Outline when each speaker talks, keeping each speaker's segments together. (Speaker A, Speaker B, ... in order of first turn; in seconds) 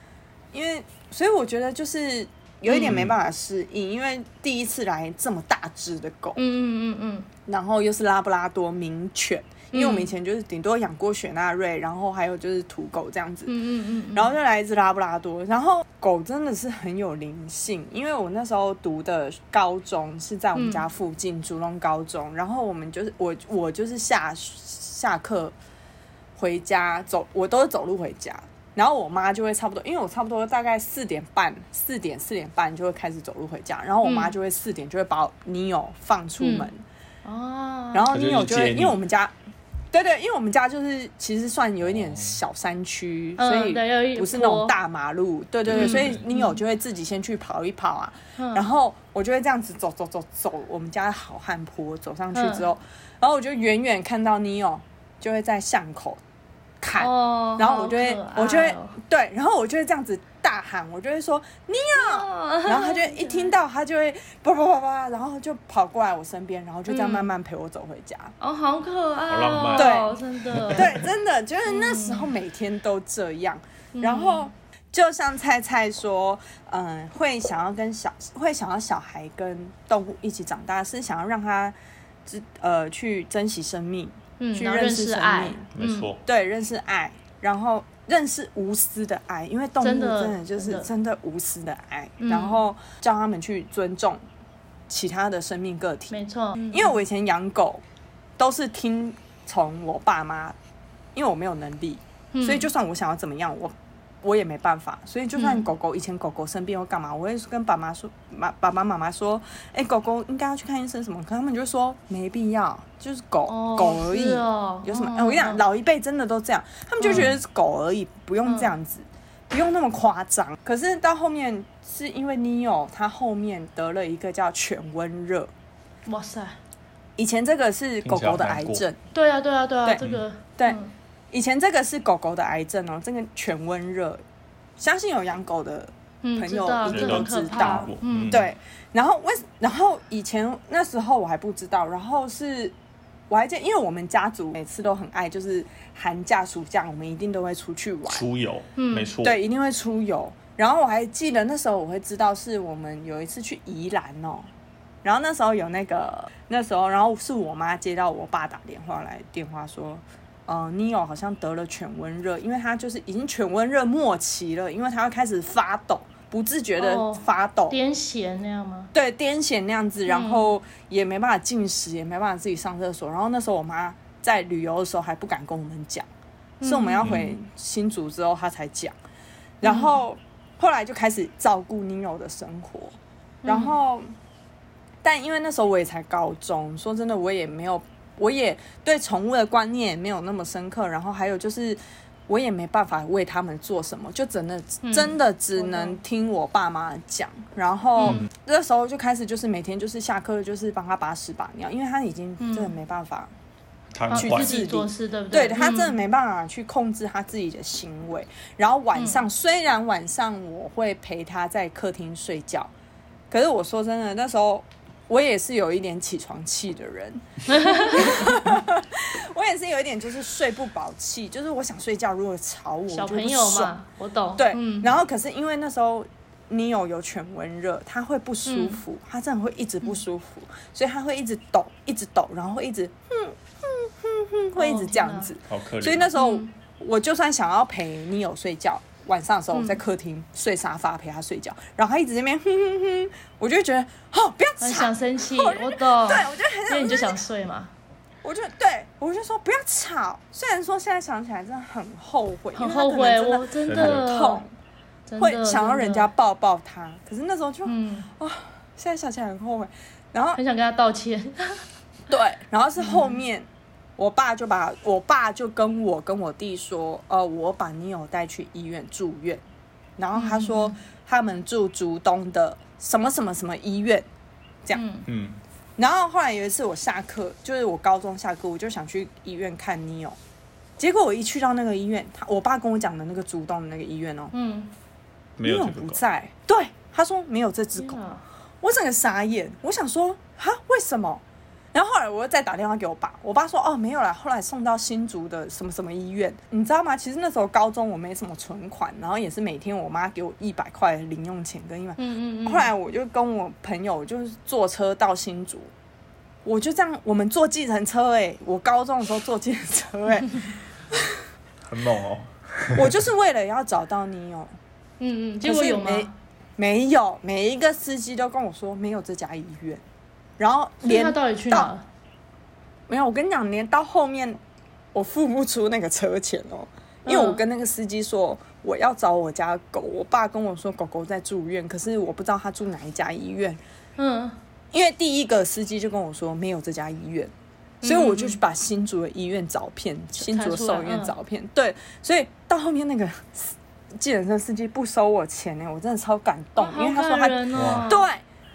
Speaker A: 0.5-6.4, 7.5-13.5, 14.1-25.6, 26.4-36.8, 37.9-39.3, 39.9-56.2, 56.8-68.3, 69.8-70.2, 70.7-85.7, 86.3-94.2, 94.9-97.8, 98.4-100.6, 101.1-125.5, 127.2-129.0, 131.3-134.2, 134.8-142.8, 143.3-148.2, 149.2-154.5, 155.0-167.8, 168.9-176.1, 176.6-178.9, 179.6-184.1, 185.0-203.3, 204.1-212.7, 213.3-223.7, 224.4-247.2, 248.2-254.5, 255.2-260.4, 262.1-269.4, 270.0-274.1, 275.8-280.2, 280.8-284.3, 285.4-288.0, 288.6-305.7, 306.4-311.2, 312.8-314.5, 315.4-319.8, 320.4-321.7, 322.9-324.4, 324.9-333.6, 334.7-337.3, 337.8-348.2
Speaker B: 2.7-3.0, 6.4-7.3, 9.7-10.1, 13.5-14.3, 20.6-20.9, 34.0-34.3, 36.4-36.7, 37.2-38.1, 43.4-44.7, 45.7-46.6, 48.4-48.6, 52.3-52.7, 57.0-59.0, 62.0-63.5, 66.9-67.3, 68.4-71.0, 71.7-72.3, 74.0-74.5, 84.4-86.1, 89.8-90.9, 92.2-92.6, 96.1-97.0, 102.3-102.7, 105.4-105.7, 113.5-115.6, 117.0-117.2, 118.5-118.7, 126.1-126.6, 129.1-130.9, 136.2-138.4, 148.8-149.1, 166.8-168.9, 170.1-170.5, 176.6-177.2, 179.6-180.0, 183.4-183.8, 194.8-196.0, 198.0-198.2, 202.4-202.7, 204.1-206.0, 209.0-209.2, 217.5-218.3, 222.9-224.9, 228.5-228.8, 234.6-235.3, 236.2-236.5, 239.5-239.8, 244.6-247.7, 252.6-254.4, 255.1-256.1, 257.7-258.1, 260.4-261.6, 262.8-263.2, 270.1-270.8, 274.7-275.1, 284.3-284.7, 287.8-288.2, 302.0-302.7, 315.0-316.1, 320.8-321.8, 327.1-327.4, 334.0-334.4, 337.8-338.4, 340.2-341.1, 346.6-348.1
Speaker C: 2.9-3.1, 38.1-39.0, 42.0-42.3, 45.7-46.2, 69.3-71.0, 85.8-86.2, 117.1-117.4, 128.0-128.8, 136.9-138.4, 148.1-149.4, 177.0-177.3, 198.0-198.3, 203.9-204.6, 235.5-236.1, 253.7-254.0, 275.1-275.4, 285.4-286.0, 311.6-312.9, 347.6-347.9